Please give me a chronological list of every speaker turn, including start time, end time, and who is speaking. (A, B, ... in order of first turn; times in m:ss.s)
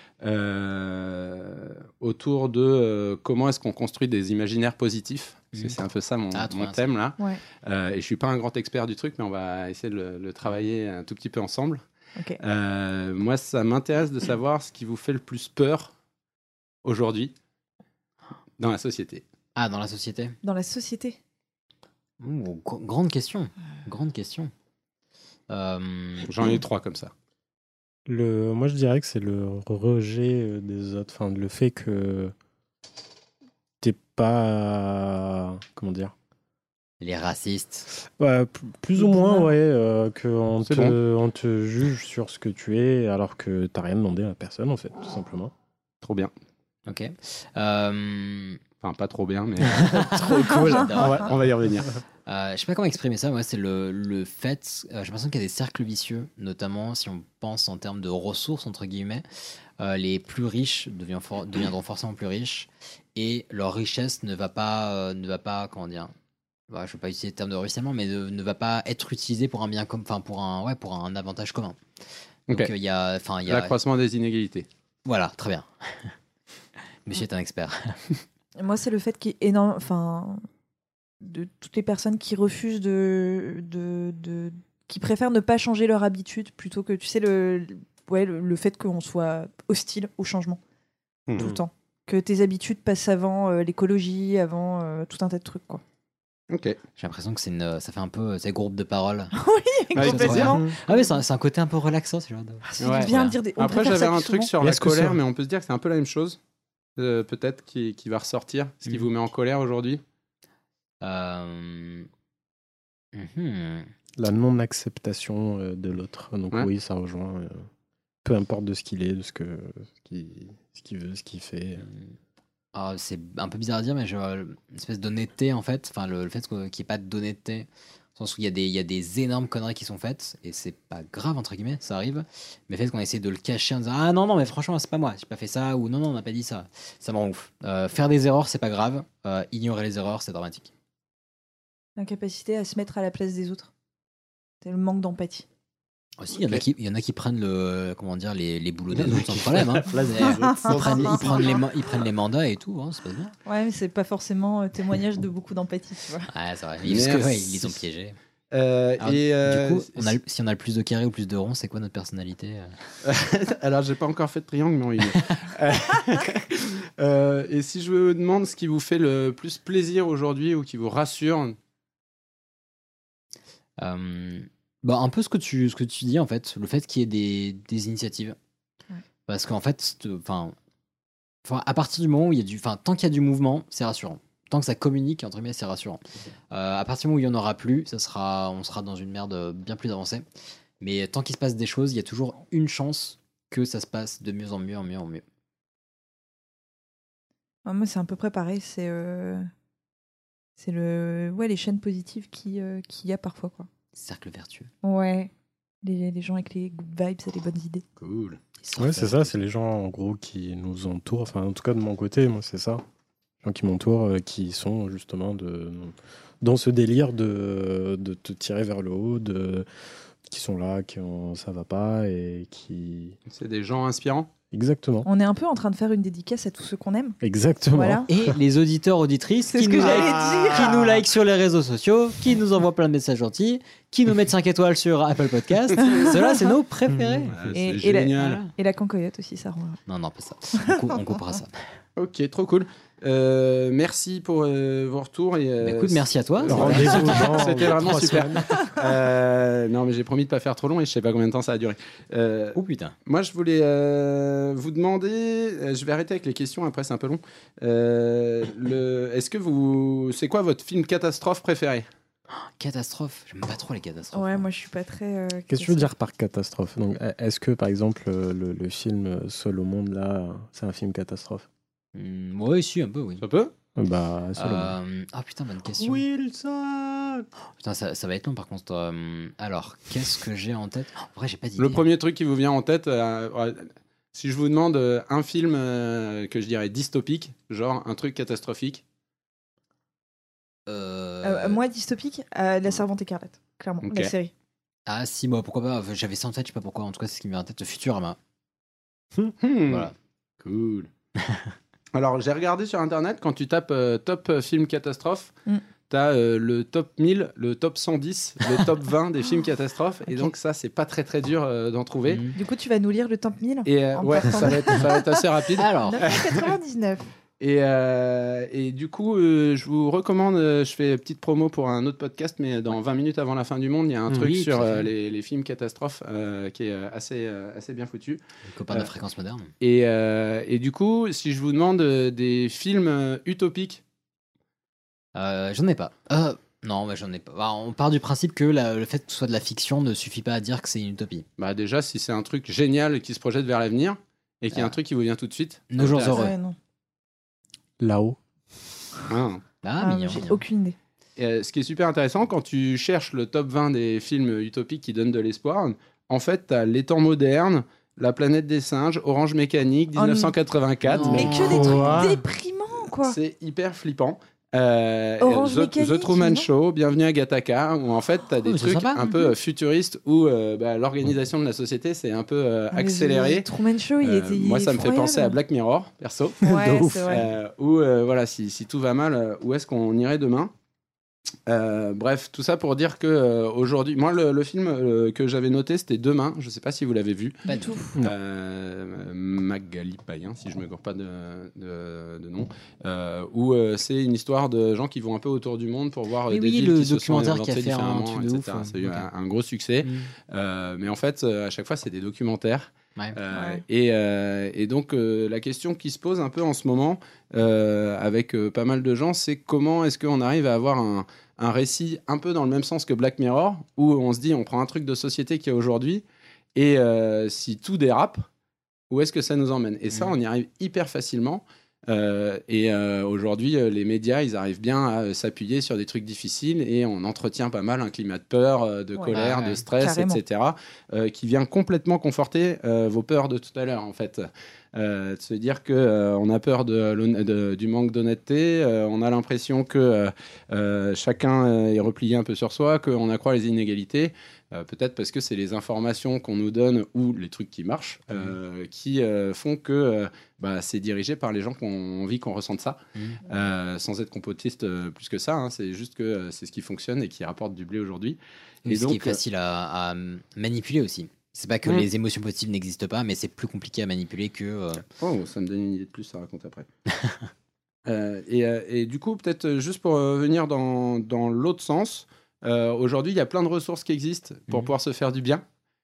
0:00.2-0:11.8 A
0:06.3-0:06.8 B
0:12.4-0:15.9 A
0:16.8-0:17.3 A
0:18.6-0:19.2 A
0:19.5-0:20.4 B
0:20.4-0:21.2 C
0:22.2-0:24.5 B
0:25.5-0:26.3 B
0:26.3-0:27.1 A
0:28.0-0:32.3 D
0:33.8-0:36.1 D
0:37.0-0:37.9 B
0:38.2-0:45.5 D
0:39.0-0:39.5 C
0:40.6-0:41.0 A
0:46.0-0:46.3 A
0:46.8-0:48.6 B
0:48.8-0:50.3 A
0:49.7-0:51.3 B
0:50.3-0:51.2 D
0:50.5-0:50.9 C
0:51.0-0:51.9 A
0:52.2-0:59.2 B
0:59.8-1:06.1 B
1:06.7-1:11.8 B
1:12.5-1:13.7 B
1:13.5-1:14.7 A
1:15.0-1:16.1 B
1:17.0-1:18.0 B
1:18.6-1:20.4 C
1:21.2-1:30.6 C
1:31.4-1:35.8 C
1:36.5-1:36.8 A
1:37.0-1:39.3 B
1:39.4-1:41.1 C
1:39.9-1:40.6 A
1:40.0-1:43.4 B
1:42.6-1:44.5 C
1:42.8-1:46.4 A
1:44.6-1:45.2 D
1:47.0-1:50.0 A
1:51.0-1:52.1 B
1:53.1-1:53.9 B
1:54.2-1:57.6 D
1:58.2-2:01.8 D
2:01.8-2:02.1 B
2:02.7-2:20.7 B
2:22.0-2:23.7 C
2:24.6-2:25.4 C
2:26.2-2:33.3 B
2:26.3-2:26.6 A
2:28.9-2:31.6 A
2:30.2-2:31.6 C
2:33.4-2:36.3 C
2:36.3-2:38.2 B
2:36.8-2:37.8 A
2:38.5-2:40.1 A
2:39.0-2:42.7 B
2:43.0-2:51.6 A
2:53.8-2:58.4 B
2:59.3-3:00.5 B
3:01.4-3:10.2 B
3:10.8-3:15.2 B
3:17.6-3:19.5 C
3:20.6-3:23.7 C
3:23.9-3:24.7 B
3:24.8-3:25.3 C
3:25.8-3:27.8 C
3:28.0-3:28.4 A
3:28.6-3:29.4 B
3:28.8-3:32.8 D
3:33.4-3:39.7 D
3:40.2-3:43.2 D
3:43.3-3:44.3 A
3:44.5-3:45.1 D
3:45.0-3:47.2 C
3:47.2-3:48.3 D
3:47.7-3:48.1 C
3:48.1-3:57.3 B
3:49.5-3:50.8 C
3:49.8-3:50.8 A
3:55.8-3:56.5 C
3:56.9-3:57.3 D
3:57.3-3:58.4 A
3:57.5-3:59.8 C
3:58.2-3:58.5 B
3:59.9-4:01.7 B
4:00.6-4:01.0 C
4:02.0-4:21.8 A
4:05.6-4:08.2 B
4:06.4-4:08.5 D
4:12.5-4:12.9 B
4:22.3-4:24.5 B
4:24.1-4:25.9 C
4:25.5-4:31.5 D
4:31.9-4:33.2 B
4:33.2-4:33.5 A
4:33.8-4:34.8 D
4:34.4-4:36.0 B
4:35.8-4:37.2 A
4:37.6-4:41.8 B
4:41.6-4:48.8 A
4:50.7-4:51.6 B
4:51.2-4:54.3 C
4:53.8-4:54.1 A
4:54.9-4:58.2 B
4:59.4-4:59.9 A
5:00.4-5:00.9 A
5:01.2-5:01.5 B
5:01.9-5:05.3 A
5:05.9-5:12.2 A
5:12.1-5:12.4 B
5:12.4-5:15.2 C
5:13.6-5:16.5 A
5:15.6-5:16.0 B
5:15.9-5:17.1 C
5:17.4-5:28.9 A
5:24.1-5:24.9 B
5:28.5-5:29.5 B
5:29.6-5:33.8 A
5:35.1-5:41.2 B
5:41.4-5:46.2 A
5:45.7-5:46.3 B
5:46.1-5:46.6 C
5:47.8-5:48.2 D
5:49.1-5:49.4 A
5:49.6-5:50.4 B
5:49.8-5:50.8 C
5:51.2-6:01.6 A
6:00.0-6:00.3 C
6:00.9-6:02.1 B
6:01.0-6:02.2 D
6:01.1-6:03.2 C
6:03.0-6:13.5 A
6:05.2-6:06.5 C
6:08.4-6:09.0 B
6:12.7-6:15.4 C
6:14.0-6:20.5 A
6:16.4-6:17.2 C
6:16.5-6:17.1 D
6:21.5-6:27.4 A
6:27.4-6:28.0 C
6:27.5-6:27.7 B
6:28.0-6:56.0 A
6:36.3-6:39.1 B
6:39.8-6:40.1 B
6:43.3-6:43.6 C
6:56.5-6:58.2 A
6:58.9-7:39.2 A
7:09.1-7:09.6 B
7:09.8-7:10.2 C
7:38.6-7:44.8 B
7:45.0-7:46.7 A
7:46.9-7:47.3 B
7:47.8-7:55.4 A